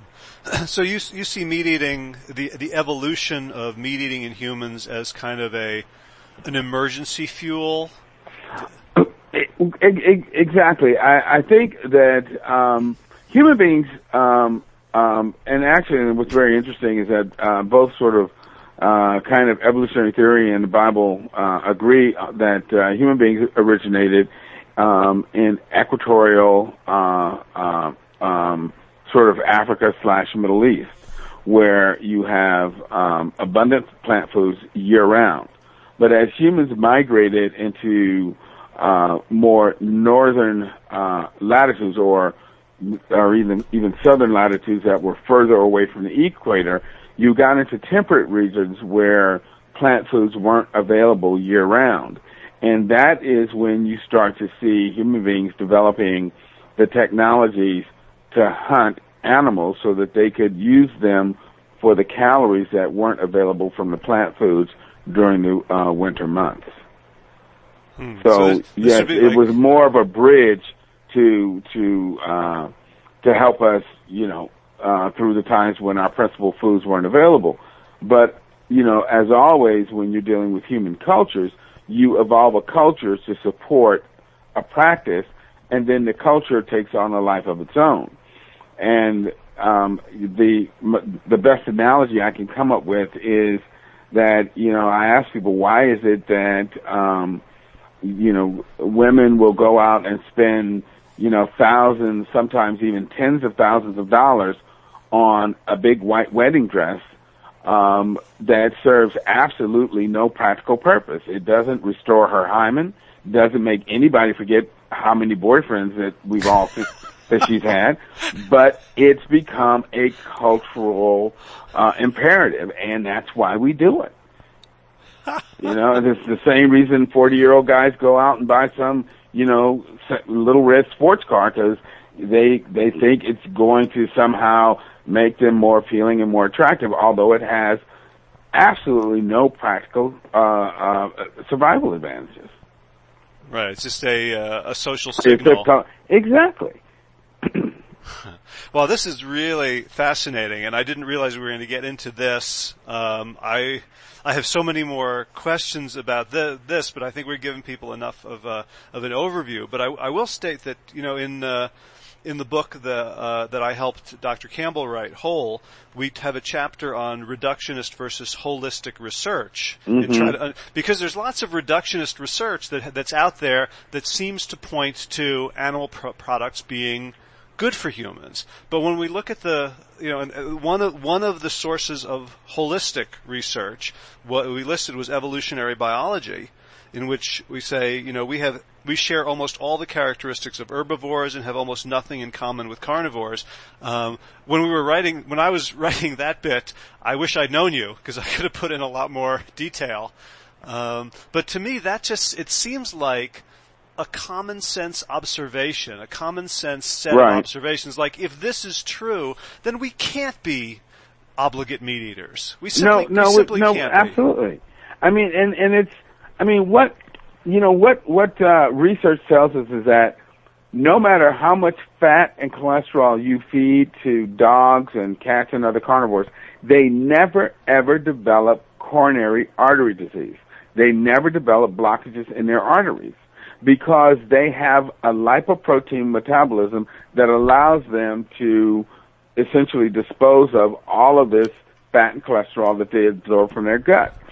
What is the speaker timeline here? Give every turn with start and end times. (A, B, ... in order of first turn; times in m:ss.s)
0:00.4-0:05.8 A
0:06.4-0:07.9 A
0:09.0-1:06.7 B
1:08.0-1:09.4 A
1:08.2-1:12.7 B
1:13.2-1:28.1 B
1:28.8-1:37.4 B
1:38.0-1:44.6 B
1:45.1-1:47.0 B
1:47.6-2:04.1 B
2:05.6-2:17.8 B
2:18.5-2:22.5 B
2:23.5-2:25.7 A
2:25.2-2:26.8 B
2:27.4-2:27.7 B
2:28.2-2:41.7 A
2:42.2-3:20.1 A
2:49.9-2:50.4 B
3:20.6-3:23.4 A
3:24.0-3:30.8 A
3:27.1-3:27.4 B
3:31.4-3:34.2 A
3:32.8-3:40.2 B
3:40.7-4:04.2 B